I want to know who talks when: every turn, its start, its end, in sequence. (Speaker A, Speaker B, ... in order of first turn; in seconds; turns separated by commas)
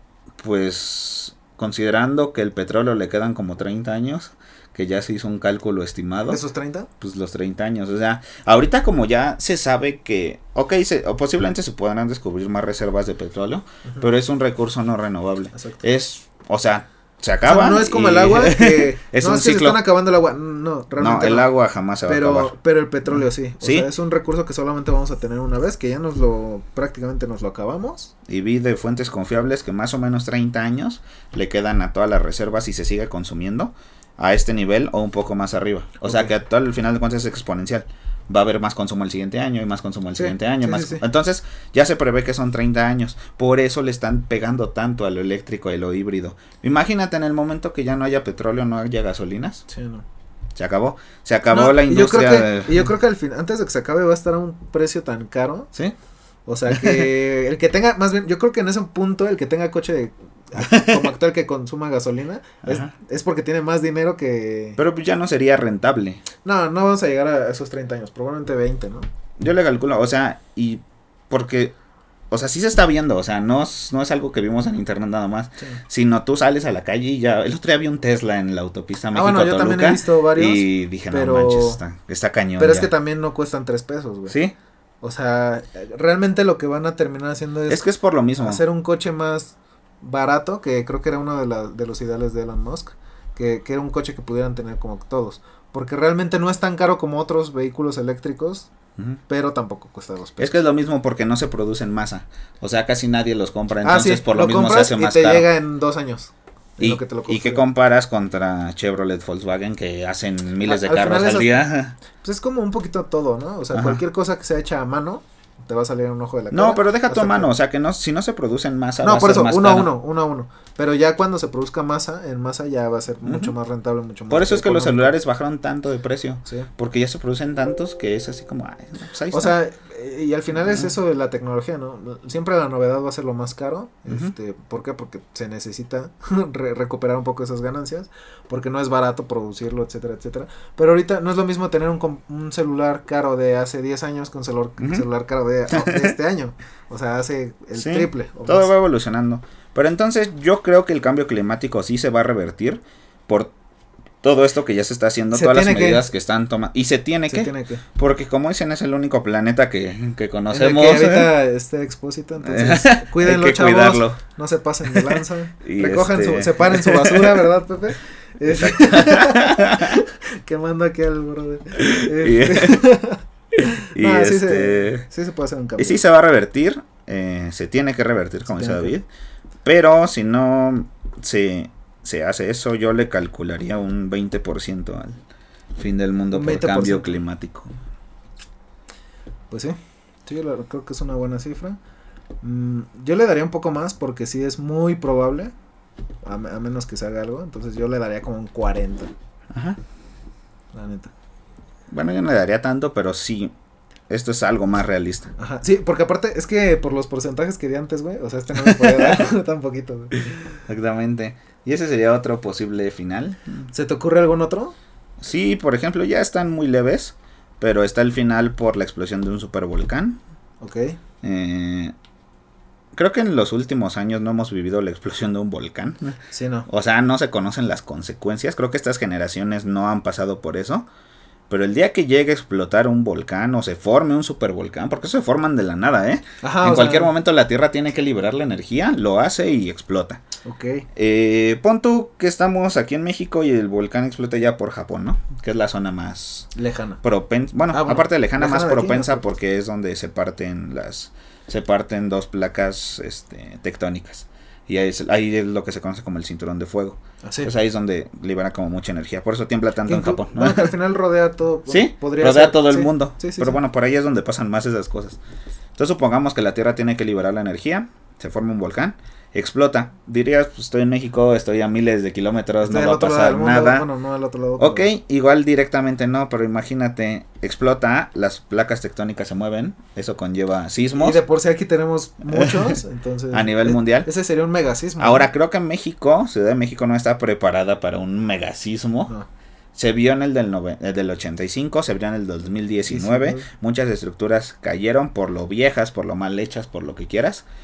Speaker A: 0.4-6.4, Speaker B: 6.3-6.9, Speaker A: 7.0-19.8, Speaker B: 15.5-15.8, Speaker B: 17.4-21.5, Speaker A: 21.0-22.5, Speaker B: 22.1-28.1, Speaker A: 23.1-23.9, Speaker A: 28.3-49.6, Speaker B: 36.0-36.3, Speaker B: 40.2-41.0, Speaker B: 49.7-50.0, Speaker A: 50.6-52.9, Speaker B: 51.5-55.7, Speaker B: 56.5-64.8, Speaker A: 56.7-57.1, Speaker A: 60.6-61.1, Speaker A: 64.8-66.2, Speaker B: 66.4-69.1, Speaker A: 69.4-71.8, Speaker A: 72.3-82.9, Speaker B: 79.1-81.8, Speaker B: 82.6-84.3, Speaker A: 84.3-84.5, Speaker B: 85.0-87.8, Speaker A: 87.7-88.6, Speaker B: 88.4-98.7, Speaker B: 99.3-100.5, Speaker A: 100.4-105.5, Speaker B: 103.8-107.6, Speaker A: 106.8-112.0, Speaker B: 110.7-111.6, Speaker B: 112.2-117.5, Speaker A: 113.7-114.0, Speaker A: 116.5-119.9, Speaker B: 119.0-125.1, Speaker A: 123.2-123.5, Speaker A: 124.3-129.5, Speaker B: 129.3-148.7, Speaker A: 144.8-145.1, Speaker A: 145.7-146.2, Speaker A: 147.8-153.5, Speaker A: 154.2-161.3, Speaker B: 155.3-156.1, Speaker B: 157.3-157.8, Speaker B: 160.5-173.2, Speaker A: 162.4-164.2, Speaker A: 164.9-167.4, Speaker A: 168.5-170.0, Speaker A: 171.8-172.9, Speaker A: 173.6-175.1, Speaker B: 173.9-176.0, Speaker A: 175.8-179.1, Speaker B: 178.5-178.9, Speaker A: 179.7-185.2, Speaker A: 185.8-187.7, Speaker B: 186.3-187.2, Speaker B: 189.5-191.8, Speaker B: 192.4-195.5, Speaker B: 196.2-199.1, Speaker A: 199.5-199.8, Speaker B: 200.7-201.1, Speaker A: 201.9-203.5, Speaker A: 204.1-205.3, Speaker B: 205.4-210.6, Speaker A: 208.6-209.2, Speaker A: 210.7-213.7, Speaker B: 213.7-214.8, Speaker A: 215.2-220.2, Speaker B: 220.6-221.0, Speaker A: 221.2-221.9, Speaker A: 222.9-230.9, Speaker B: 226.3-226.7, Speaker A: 231.5-240.2, Speaker B: 236.4-237.1, Speaker B: 240.4-240.9, Speaker A: 240.9-246.5, Speaker B: 246.6-247.0, Speaker A: 247.0-260.7, Speaker B: 247.7-249.2, Speaker B: 257.2-257.5, Speaker B: 259.9-263.6, Speaker A: 261.7-265.2, Speaker A: 265.8-273.9, Speaker B: 272.6-274.9, Speaker A: 274.6-281.2, Speaker B: 280.9-285.3, Speaker A: 282.3-282.8, Speaker A: 283.3-284.1, Speaker A: 285.0-289.1, Speaker A: 289.8-297.4, Speaker B: 292.9-293.5